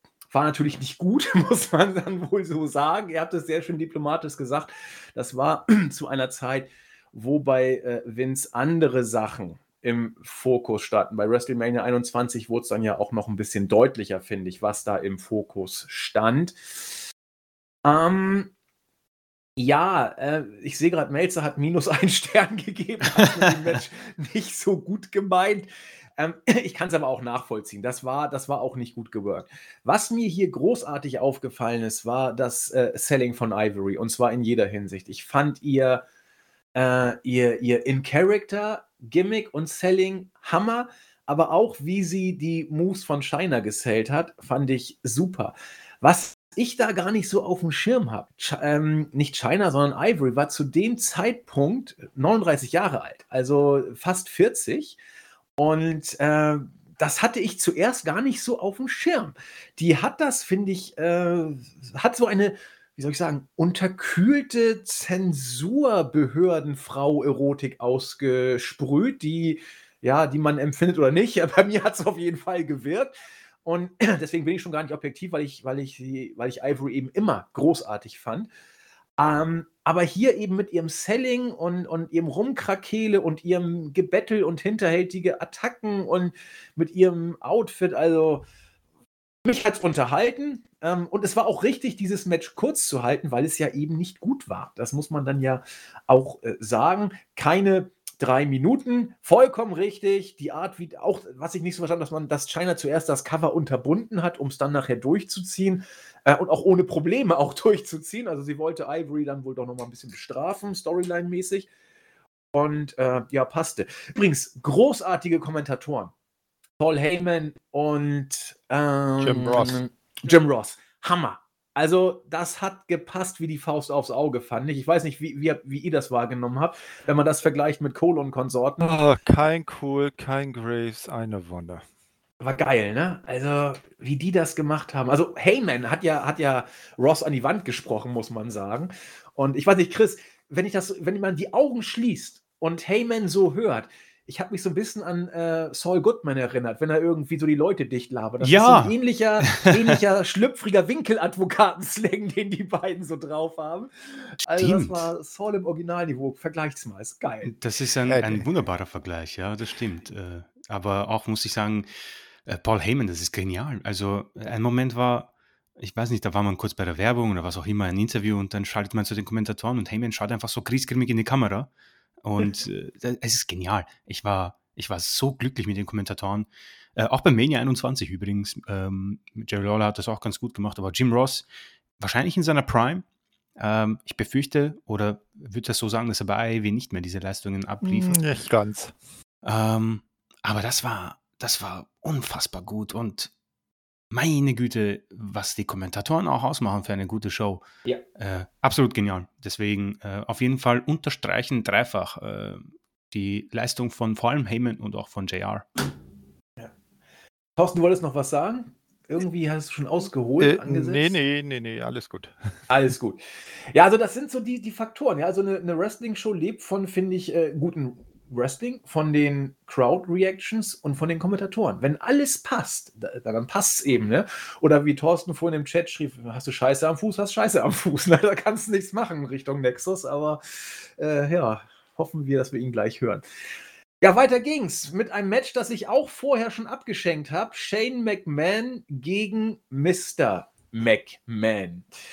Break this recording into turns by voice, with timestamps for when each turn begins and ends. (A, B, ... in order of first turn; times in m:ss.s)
0:00.3-0:16.6 A
0:17.8-0:18.5 A
0:19.6-0:36.0 A
0:36.8-0:55.0 A
0:55.6-1:13.1 A
1:13.6-1:18.5 A
1:19.2-1:28.4 A
1:29.4-1:51.7 A
1:52.5-1:56.1 A
1:56.8-2:09.0 A
1:59.2-1:59.8 B
2:08.8-2:11.8 B
2:12.4-2:37.5 A
2:28.4-2:30.0 C
2:34.5-2:35.0 C
2:37.4-2:41.9 C
2:38.1-2:38.4 B
2:42.4-2:51.7 C
2:52.2-3:01.4 C
3:02.0-3:03.0 C
3:03.6-3:08.2 C
3:07.8-3:08.9 B
3:09.4-3:13.3 C
3:14.1-3:17.6 C
3:18.2-3:25.8 C
3:27.6-3:31.2 A
3:30.4-3:32.3 B
3:32.7-3:53.2 A
3:54.0-4:01.8 A